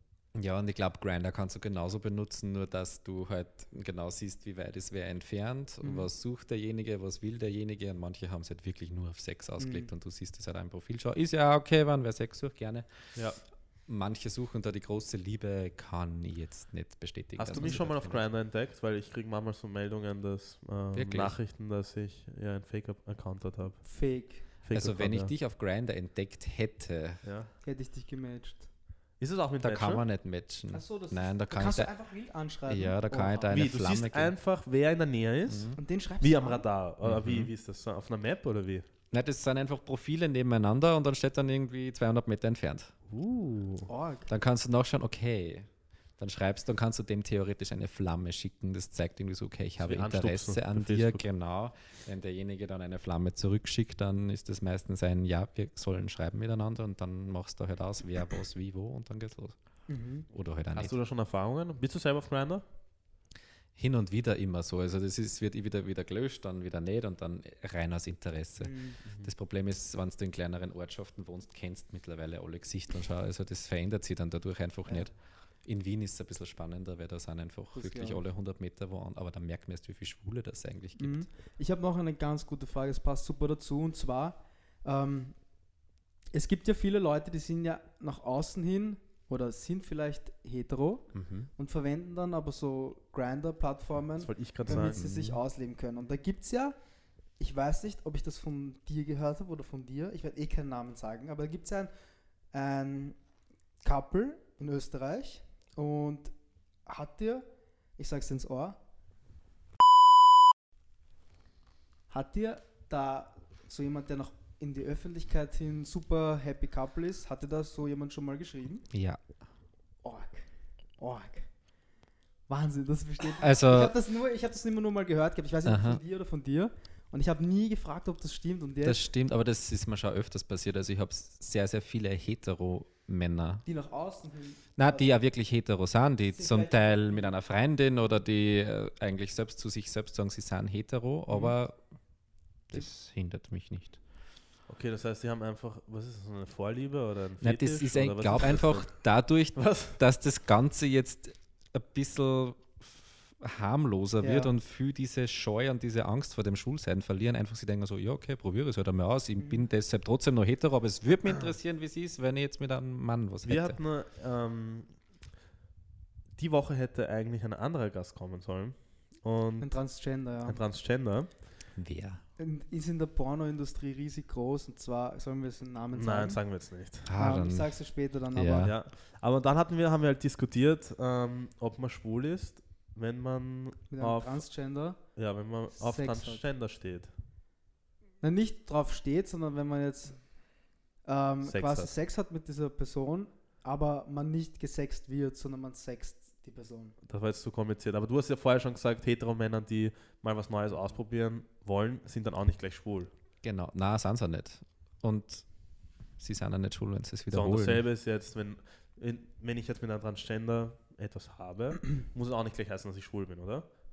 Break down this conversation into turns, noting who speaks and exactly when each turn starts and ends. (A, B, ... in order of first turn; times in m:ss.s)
0:00.3-0:18.3 A
0:05.8-0:06.1 B
0:09.6-0:09.9 B
0:13.1-0:13.4 C
0:17.4-0:25.3 C
0:20.9-0:21.4 A
0:23.8-0:24.5 B
0:24.7-0:27.3 A
0:27.2-0:27.5 C
0:27.6-0:28.7 B
0:29.2-0:30.1 C
0:29.6-0:34.4 A
0:30.7-0:33.6 B
0:33.5-0:38.8 C
0:35.5-0:35.8 A
0:35.8-0:36.7 B
0:37.0-0:37.5 A
0:39.1-0:43.0 A
0:43.1-0:43.9 C
0:43.9-0:44.3 B
0:44.3-1:01.0 A
0:49.8-0:51.3 C
0:59.9-1:00.3 B
1:00.7-1:02.6 C
1:03.7-1:21.3 A
1:08.6-1:09.0 B
1:09.0-1:09.3 C
1:17.7-1:18.2 B
1:21.0-1:25.8 B
1:26.3-1:48.8 B
1:31.1-1:31.5 A
1:34.2-1:35.0 C
1:34.7-1:35.4 A
1:52.1-1:58.9 B
1:58.9-1:59.4 A
2:00.0-2:02.0 B
2:02.5-2:09.1 B
2:03.4-2:03.9 A
2:05.6-2:06.0 A
2:08.8-2:13.7 A
2:13.6-2:15.2 B
2:14.8-2:24.0 A
2:16.3-2:17.3 B
2:21.3-2:21.5 B
2:24.7-2:30.0 C
2:27.4-2:43.8 A
2:34.2-2:34.5 B
2:39.4-2:39.7 B
2:43.4-2:45.2 C
2:46.3-2:51.5 C
2:49.6-2:50.6 B
2:51.8-2:52.2 A
2:52.4-2:58.8 B
2:56.0-2:57.1 C
2:57.0-2:58.8 A
2:58.6-3:07.1 C
3:03.9-3:06.5 B
3:08.2-3:17.0 B
3:11.4-3:11.9 C
3:17.0-3:23.1 C
3:23.4-3:27.9 A
3:27.3-3:33.6 C